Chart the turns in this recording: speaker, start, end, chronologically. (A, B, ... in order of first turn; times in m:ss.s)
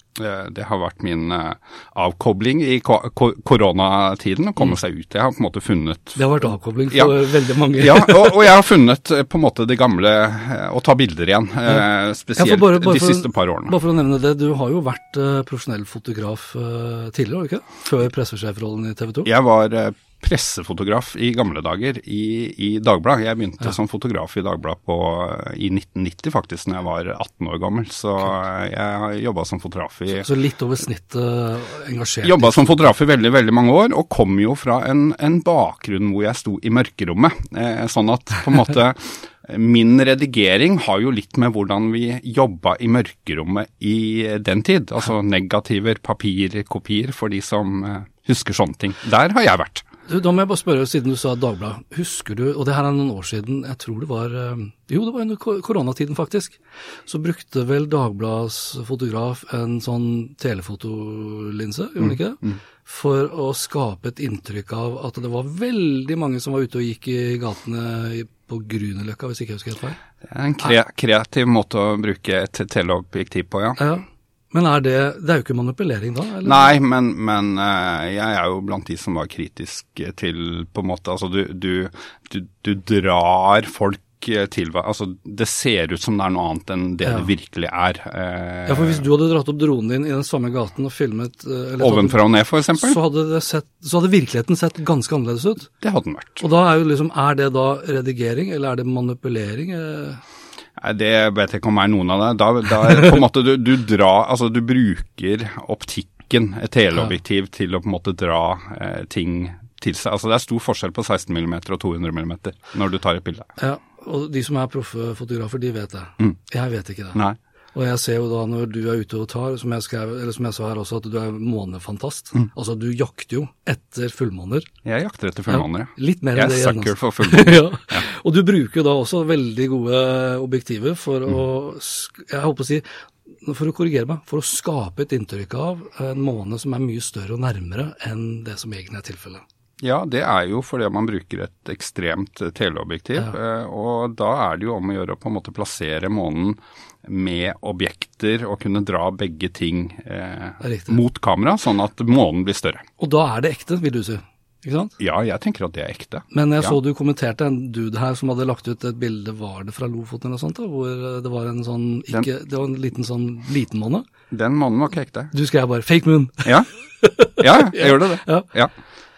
0:00.2-0:06.3 A
0:06.2-0:08.5 B
0:06.9-0:13.8 A
0:12.4-0:19.3 B
0:19.2-0:30.3 A
0:30.1-0:32.9 B
0:32.2-0:49.8 A
0:50.1-1:10.0 B
1:02.0-1:02.6 A
1:10.2-1:13.8 A
1:13.8-1:16.7 B
1:16.4-1:29.0 A
1:27.0-1:27.3 B
1:28.7-1:32.2 B
1:31.8-1:33.0 A
1:32.8-1:35.7 B
1:35.8-1:36.4 A
1:36.4-1:40.2 B
1:40.8-1:53.5 A
1:53.6-1:57.2 B
1:57.7-2:04.7 B
2:04.8-2:08.0 A
2:05.5-2:12.9 B
2:13.4-2:19.4 B
2:19.8-2:32.8 A
2:30.6-2:31.0 B
2:33.0-2:34.9 B
2:35.0-2:36.8 A
2:36.3-2:44.0 B
2:44.3-2:45.3 A
2:45.3-2:48.5 B
2:47.4-2:48.7 A